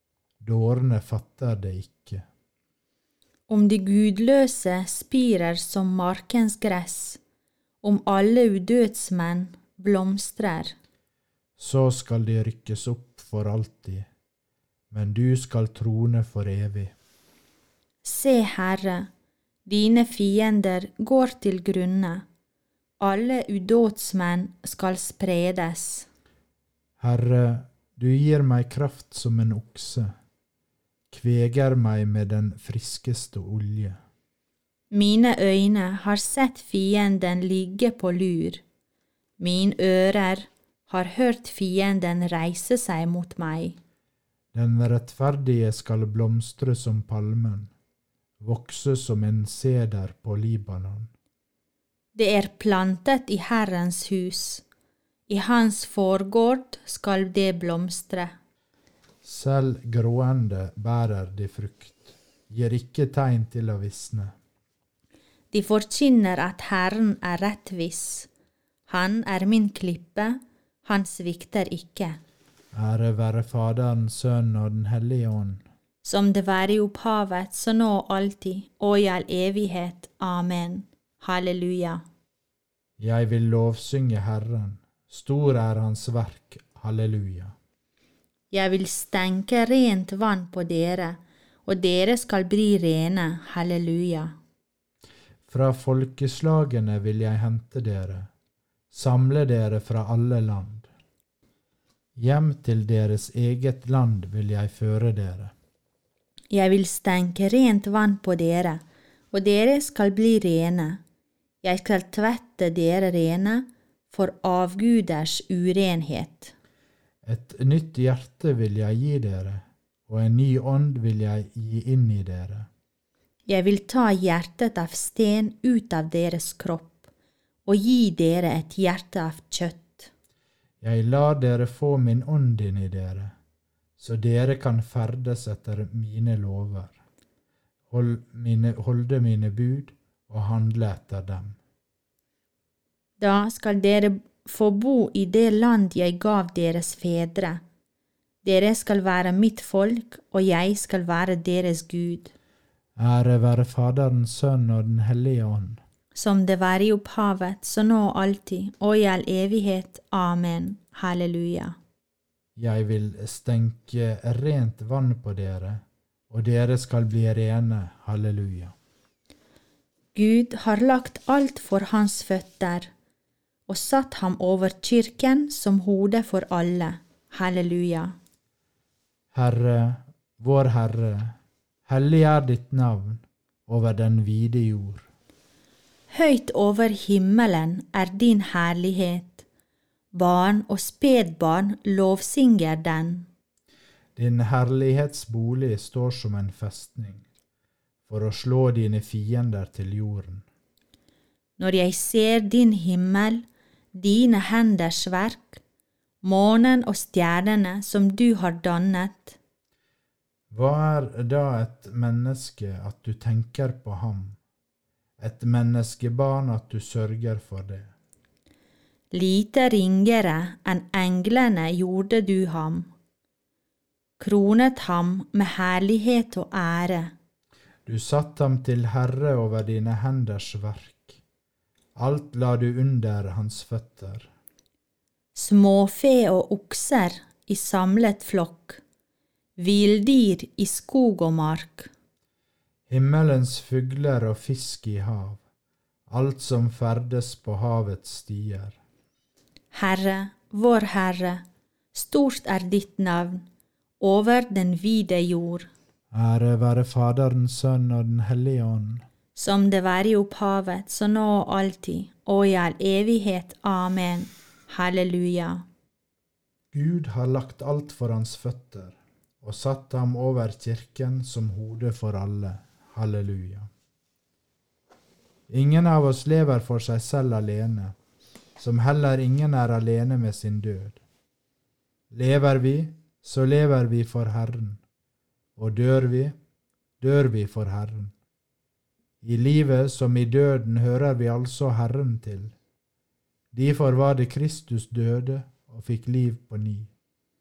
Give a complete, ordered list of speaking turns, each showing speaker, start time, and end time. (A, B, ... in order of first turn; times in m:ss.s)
0:00.4-0:02.2 A
0:03.5-0:07.2 B
0:07.8-0:10.8 B
0:11.6-0:14.1 A
0:14.9-0:16.9 A
0:18.0-0:19.1 B
0:19.7-0:22.2 B
0:23.0-0:26.1 B
0:27.0-0:30.1 A
0:31.1-0:34.0 A
0:34.9-0:38.6 B
0:39.4-0:43.8 B
0:44.5-0:47.7 A
0:48.4-0:51.1 A
0:52.2-0:54.6 B
0:55.3-0:58.4 B
0:59.2-1:04.3 A
1:05.5-1:08.3 B
1:08.9-1:12.2 B
1:12.7-1:15.6 A
1:16.0-1:22.0 B
1:23.0-1:27.5 A
1:28.5-1:34.3 B
1:35.5-1:38.3 A
1:38.9-1:40.9 A
1:42.2-1:45.5 A
1:46.5-1:51.0 B
1:51.6-1:56.5 B
1:57.2-2:02.7 A
2:03.5-2:07.0 B
2:07.7-2:10.1 B
2:10.8-2:13.3 A
2:14.0-2:17.0 A
2:17.9-2:21.6 A
2:23.2-2:27.6 B
2:28.4-2:32.3 B
2:33.0-2:35.8 A
2:36.2-2:41.8 B
2:42.6-2:48.7 A
2:50.2-2:52.9 B
2:53.7-2:58.2 B
2:59.3-3:05.1 A
3:06.1-3:09.4 B
3:10.1-3:13.3 B
3:14.2-3:17.3 A
3:18.1-3:20.4 A
3:21.6-3:23.4 B
3:24.0-3:25.6 B
3:26.2-3:29.4 B
3:30.5-3:34.4 A
3:35.2-3:37.9 A
3:39.1-3:42.9 B
3:44.2-3:47.1 B
3:47.8-3:51.2 A
3:52.0-3:54.3 A
3:55.3-3:58.8 B
3:59.6-4:01.9 B
4:02.9-4:05.4 A
4:06.1-4:08.8 A
4:09.7-4:11.4 B
4:11.9-4:13.4 B
4:14.0-4:15.7 B
4:16.1-4:19.0 A
4:19.4-4:25.6 B
4:26.7-4:33.7 A
4:35.5-4:38.0 A
4:38.6-4:41.0 A
4:42.1-4:44.8 A
4:45.6-4:46.3 A
4:47.0-4:48.1 A
4:49.2-4:52.5 A
4:53.5-4:56.9 A